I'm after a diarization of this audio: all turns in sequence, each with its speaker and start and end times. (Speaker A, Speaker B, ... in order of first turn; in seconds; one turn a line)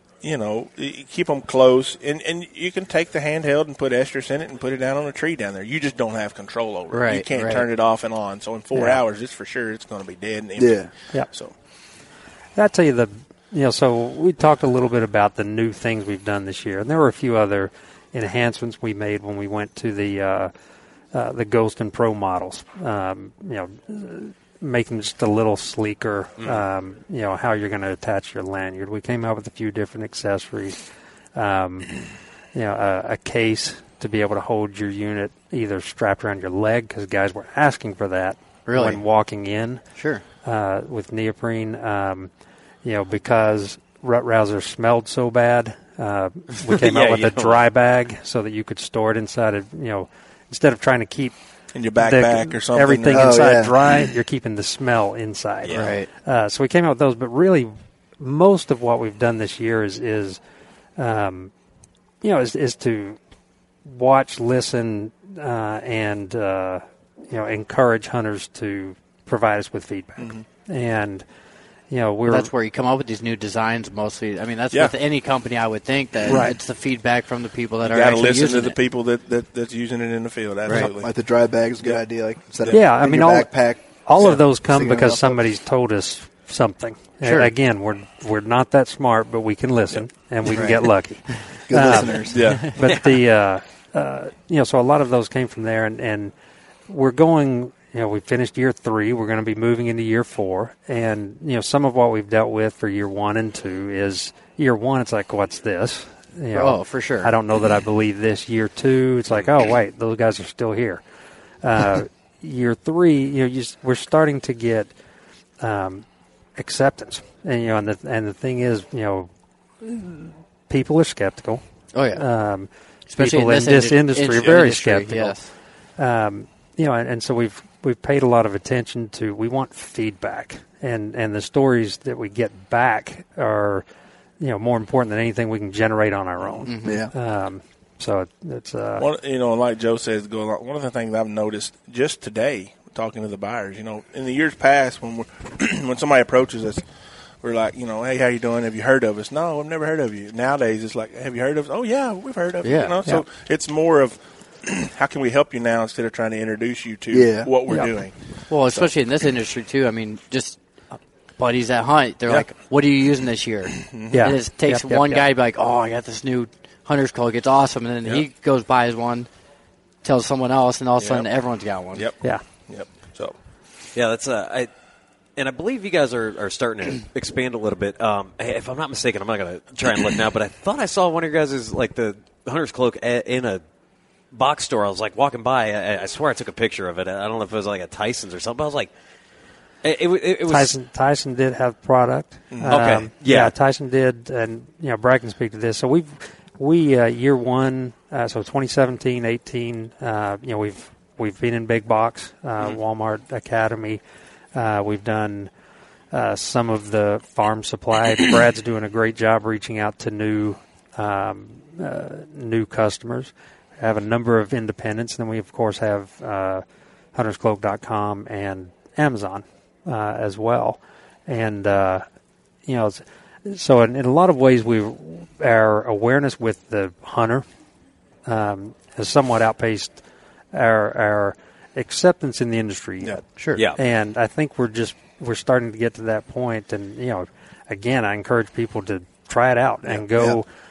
Speaker A: 0.2-11.5
Speaker B: 6.9-7.7
Speaker C: 8.7-9.0
Speaker D: 10.6-10.9
Speaker C: 12.6-20.5
Speaker C: 21.1-30.8
Speaker C: 31.3-31.9
Speaker C: 32.5-39.8
Speaker B: 38.6-39.0
Speaker B: 40.0-40.2
Speaker C: 40.4-42.3
Speaker C: 42.8-51.4
Speaker E: 46.6-47.6
Speaker A: 51.7-53.5
Speaker C: 52.0-60.4
Speaker D: 53.1-53.8
Speaker E: 55.6-55.9
Speaker B: 55.7-56.1
Speaker C: 61.0-61.5
Speaker C: 62.2-63.2
Speaker C: 63.8-71.2
Speaker A: 70.2-70.4
Speaker C: 71.9-72.5
Speaker B: 72.2-78.8
Speaker C: 76.3-76.5
Speaker A: 77.8-81.1
Speaker B: 80.7-80.9
Speaker D: 80.7-85.4
Speaker A: 82.6-82.8
Speaker C: 82.7-96.3
Speaker B: 87.2-87.5
Speaker B: 90.5-91.4
Speaker D: 91.7-92.6
Speaker A: 92.3-92.8
Speaker B: 92.4-92.7
Speaker E: 92.8-93.2
Speaker C: 96.9-111.0
Speaker B: 106.5-107.3
Speaker C: 111.6-114.9
Speaker C: 115.6-116.0
Speaker C: 116.5-119.3
Speaker C: 119.8-121.6
Speaker B: 121.9-122.2
Speaker C: 122.1-125.3
Speaker B: 123.1-125.5
Speaker C: 126.0-133.8
Speaker C: 134.4-139.1
Speaker B: 136.7-137.0
Speaker D: 136.8-137.1
Speaker A: 139.0-146.8
Speaker A: 147.4-158.1
Speaker B: 152.6-153.0
Speaker D: 157.1-157.6
Speaker B: 158.5-160.6
Speaker B: 161.4-169.3
Speaker A: 163.7-164.2
Speaker C: 164.1-165.2
Speaker B: 170.0-172.1
Speaker A: 171.0-171.3
Speaker A: 171.9-173.3
Speaker E: 173.9-174.7
Speaker E: 175.4-183.6
Speaker E: 184.3-188.9
Speaker E: 189.8-190.7
Speaker C: 190.4-204.0
Speaker A: 192.5-192.8
Speaker E: 192.6-193.5
Speaker C: 204.5-205.5
Speaker C: 206.1-216.6
Speaker C: 217.1-222.0
Speaker C: 222.7-227.4
Speaker C: 228.2-230.0
Speaker C: 230.5-233.2
Speaker B: 233.4-233.7
Speaker C: 233.7-240.4